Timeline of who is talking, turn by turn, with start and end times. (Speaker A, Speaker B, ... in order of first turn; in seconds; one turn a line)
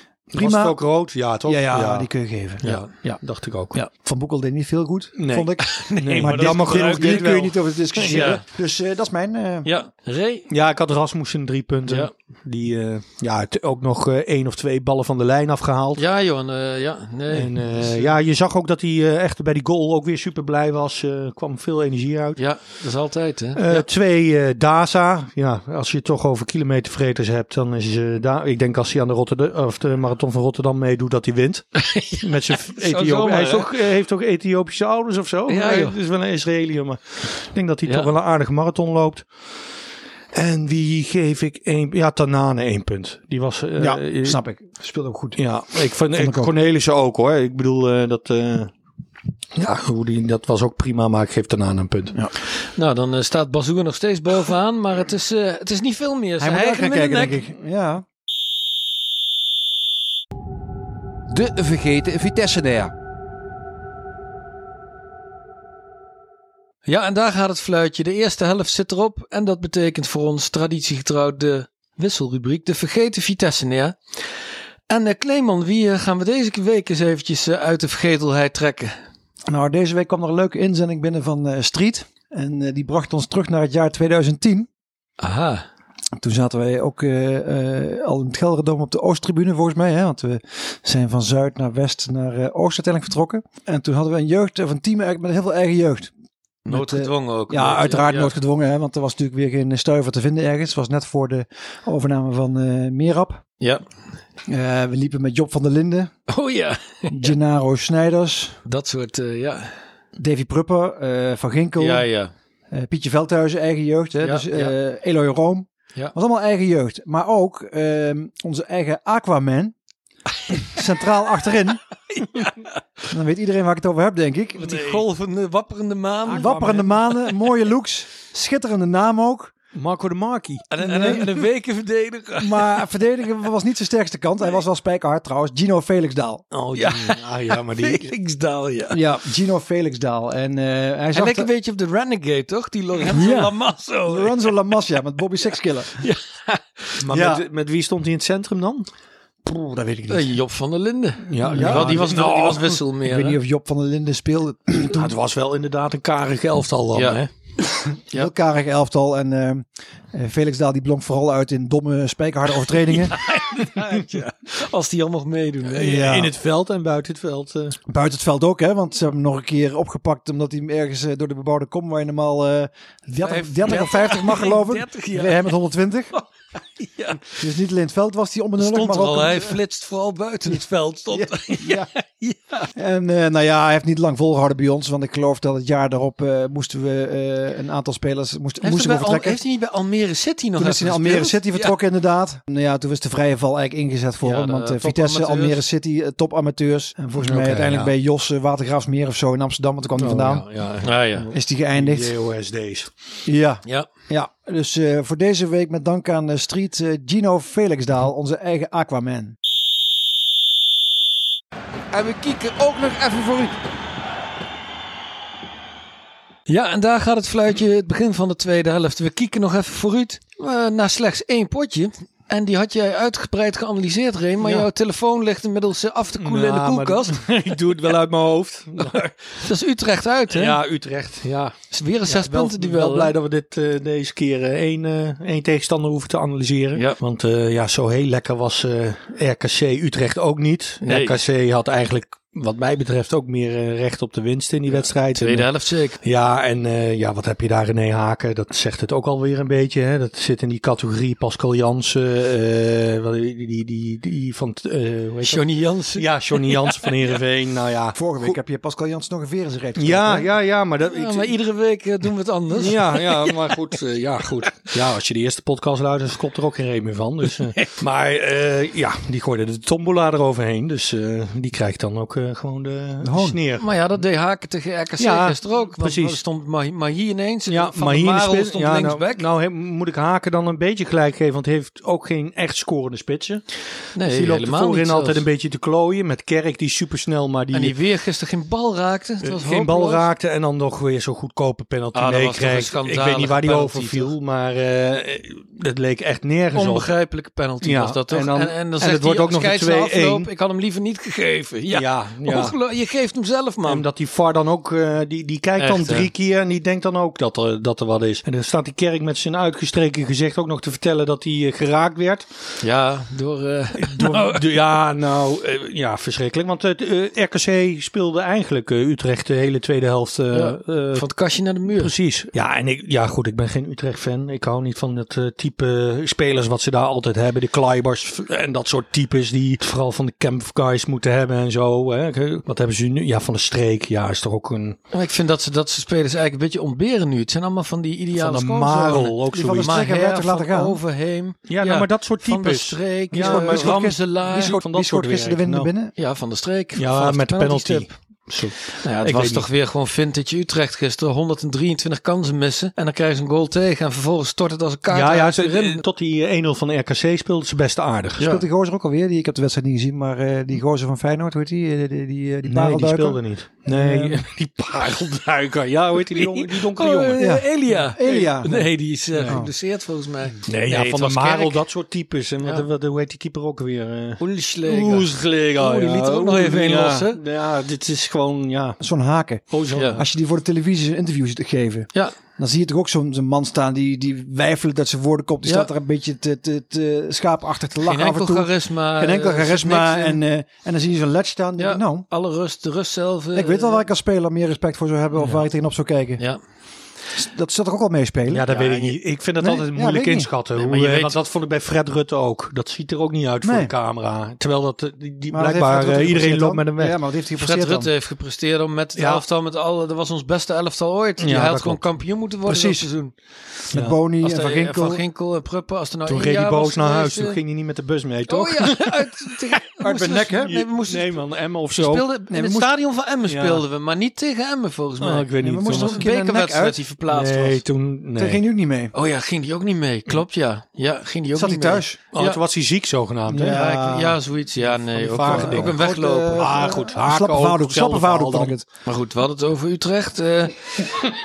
Speaker A: 0.3-3.8
Speaker B: 0.4-0.8
Speaker B: 1.4-3.2
Speaker C: 2.6-3.2
Speaker B: 3.9-9.7
Speaker A: 5.2-8.4
Speaker C: 5.6-7.5
Speaker C: 8.0-8.4
Speaker C: 9.7-10.5
Speaker A: 10.5-16.0
Speaker C: 16.0-18.1
Speaker A: 17.3-22.4
Speaker C: 22.4-23.9
Speaker A: 23.6-39.3
Speaker C: 31.8-33.7
Speaker C: 35.5-36.0
Speaker C: 37.9-38.1
Speaker A: 40.3-44.4
Speaker B: 43.8-45.4
Speaker A: 45.4-48.7
Speaker B: 46.1-46.5
Speaker A: 49.5-52.1
Speaker C: 52.8-57.4
Speaker B: 56.4-58.0
Speaker D: 61.3-62.9
Speaker C: 66.9-74.3
Speaker C: 74.9-79.0
Speaker B: 79.5-84.7
Speaker C: 85.2-85.7
Speaker B: 86.2-96.1
Speaker B: 96.7-103.4
Speaker C: 96.7-98.3
Speaker B: 104.5-106.1
Speaker C: 106.3-107.4
Speaker B: 107.1-108.6
Speaker C: 108.7-109.8
Speaker B: 110.2-112.1
Speaker C: 111.8-112.3
Speaker B: 112.7-119.8
Speaker C: 114.2-114.7
Speaker B: 120.5-121.8
Speaker C: 122.1-122.5
Speaker B: 123.1-124.9
Speaker C: 124.6-126.5
Speaker A: 126.3-127.2
Speaker B: 126.3-129.5
Speaker A: 129.8-131.2
Speaker C: 130.7-132.9
Speaker B: 130.8-131.3
Speaker B: 132.4-136.4
Speaker A: 136.5-138.1
Speaker C: 136.8-139.0
Speaker B: 138.9-141.5
Speaker C: 141.1-144.5
Speaker B: 143.1-143.5
Speaker B: 144.1-146.0
Speaker C: 146.0-147.0
Speaker A: 147.0-148.9
Speaker B: 147.1-147.4
Speaker B: 149.4-150.3
Speaker C: 150.1-153.4
Speaker A: 151.3-152.8
Speaker B: 151.4-152.1
Speaker B: 153.0-155.1
Speaker A: 154.9-157.3
Speaker C: 156.9-157.2
Speaker B: 158.1-163.2
Speaker C: 162.9-166.1
Speaker A: 165.7-167.8
Speaker B: 165.8-166.3
Speaker B: 167.9-176.1
Speaker C: 173.2-175.6
Speaker C: 176.8-177.4
Speaker B: 177.4-179.6
Speaker C: 178.6-182.7
Speaker B: 181.1-181.9
Speaker B: 182.8-189.4
Speaker C: 188.6-191.8
Speaker B: 190.6-200.5
Speaker C: 194.2-195.6
Speaker A: 197.2-197.9
Speaker A: 200.0-202.9
Speaker C: 200.8-201.3
Speaker B: 201.3-202.2
Speaker B: 203.3-209.4
Speaker D: 211.9-213.6
Speaker C: 216.5-227.3
Speaker A: 224.4-224.7
Speaker A: 226.2-229.5
Speaker C: 229.4-230.6
Speaker A: 230.3-231.6
Speaker C: 231.7-233.1
Speaker A: 232.1-245.5
Speaker C: 240.8-241.2
Speaker C: 244.7-246.0
Speaker A: 246.0-258.4
Speaker C: 255.2-257.1
Speaker B: 257.9-260.3
Speaker A: 259.8-261.3
Speaker C: 260.9-263.6
Speaker A: 262.5-273.7
Speaker B: 273.0-273.4
Speaker C: 273.6-279.3
Speaker A: 275.0-276.2
Speaker A: 277.5-287.8
Speaker C: 283.9-285.3
Speaker C: 287.5-290.1
Speaker A: 289.2-296.9
Speaker C: 291.9-294.1
Speaker C: 296.5-303.9
Speaker A: 297.6-300.3
Speaker A: 301.7-302.6
Speaker A: 303.6-312.4
Speaker C: 305.6-306.1
Speaker C: 312.6-314.5
Speaker A: 313.8-321.1
Speaker C: 320.3-321.9
Speaker A: 321.8-334.8
Speaker C: 334.9-344.6
Speaker A: 338.2-339.8
Speaker B: 339.3-340.8
Speaker A: 341.5-345.7
Speaker B: 343.2-345.9
Speaker C: 346.0-347.9
Speaker A: 346.8-349.5
Speaker C: 348.8-355.8
Speaker A: 354.9-358.2
Speaker B: 358.2-364.2
Speaker A: 362.5-368.2
Speaker C: 366.1-371.6
Speaker B: 367.2-368.7
Speaker A: 369.1-369.4
Speaker B: 369.3-369.5
Speaker A: 370.5-378.8
Speaker C: 374.2-377.2
Speaker B: 378.8-392.1
Speaker A: 379.5-380.0
Speaker C: 379.7-380.0
Speaker C: 387.9-390.2
Speaker C: 391.6-393.9
Speaker B: 393.3-396.2
Speaker C: 395.2-395.4
Speaker B: 397.1-398.5
Speaker A: 398.3-407.0
Speaker C: 398.5-399.0
Speaker B: 399.4-400.3
Speaker C: 400.6-401.2
Speaker B: 403.4-403.7
Speaker B: 405.3-407.9
Speaker C: 407.4-413.1
Speaker A: 409.0-409.2
Speaker A: 411.2-411.9
Speaker B: 412.5-412.9
Speaker B: 413.7-415.0
Speaker A: 413.7-414.0
Speaker C: 414.2-417.4
Speaker A: 416.1-419.4
Speaker C: 418.3-427.6
Speaker B: 419.8-420.6
Speaker A: 420.5-422.1
Speaker B: 422.3-422.7
Speaker A: 423.3-423.6
Speaker A: 425.0-426.0
Speaker B: 425.4-426.8
Speaker A: 427.1-428.4
Speaker B: 428.2-428.9
Speaker C: 428.9-432.4
Speaker B: 431.3-432.0
Speaker A: 432.1-433.6
Speaker B: 433.3-434.2
Speaker C: 433.5-436.7
Speaker A: 434.7-435.8
Speaker B: 435.3-438.6
Speaker A: 436.3-438.6
Speaker C: 438.9-440.6